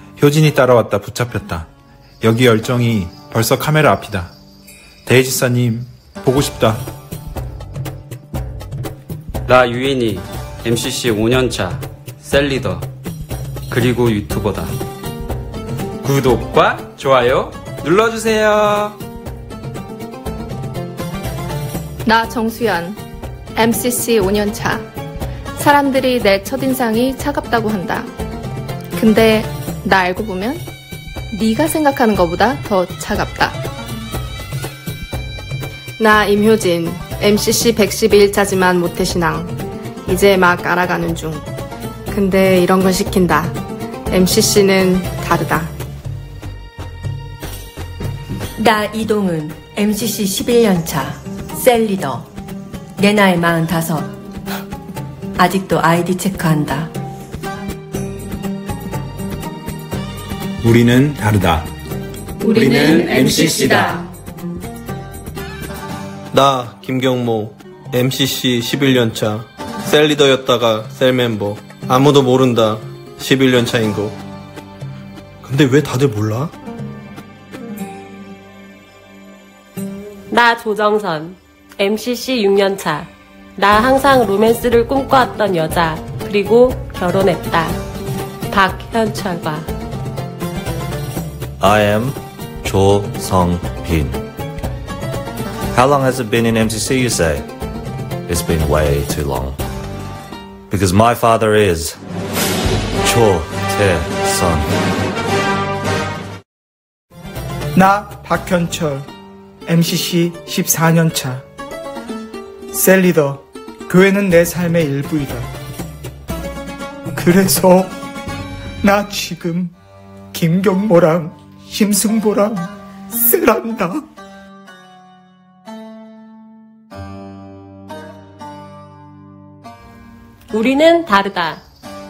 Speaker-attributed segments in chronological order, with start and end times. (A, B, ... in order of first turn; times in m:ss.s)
0:00.2-0:01.7 A
0:02.2-0:04.3 A
0:05.1-0:06.8 A
0:09.5-0:12.8 B
0:13.7-0:14.7 B
0:16.0-0:19.0 B
0:22.1-0:23.0 C
0:23.6-0:24.8 C
0:25.6-0:28.1 C
0:29.0-0:30.6 C
0:31.3-0:33.6 C
0:36.0-0:39.6 D
0:40.1-0:41.5 D
0:42.1-0:43.6 D
0:44.1-0:45.7 D
0:48.6-0:52.3 E
0:53.0-0:54.1 E
0:55.4-0:56.9 E
1:00.6-1:01.7 A
1:02.4-1:03.6 A
1:06.3-1:14.2 F
1:15.4-1:16.5 F
1:20.3-1:27.8 G
1:28.5-1:29.7 G
1:31.6-1:34.2 H
1:35.7-1:37.5 H
1:38.3-1:39.6 H
1:40.7-1:42.0 H
1:43.0-1:44.7 H
1:47.8-1:49.1 I
1:49.7-1:51.4 I
1:52.7-1:55.5 I
1:57.2-1:58.0 I
1:58.8-1:59.7 I
2:00.3-2:04.0 I
2:10.5-2:11.6 G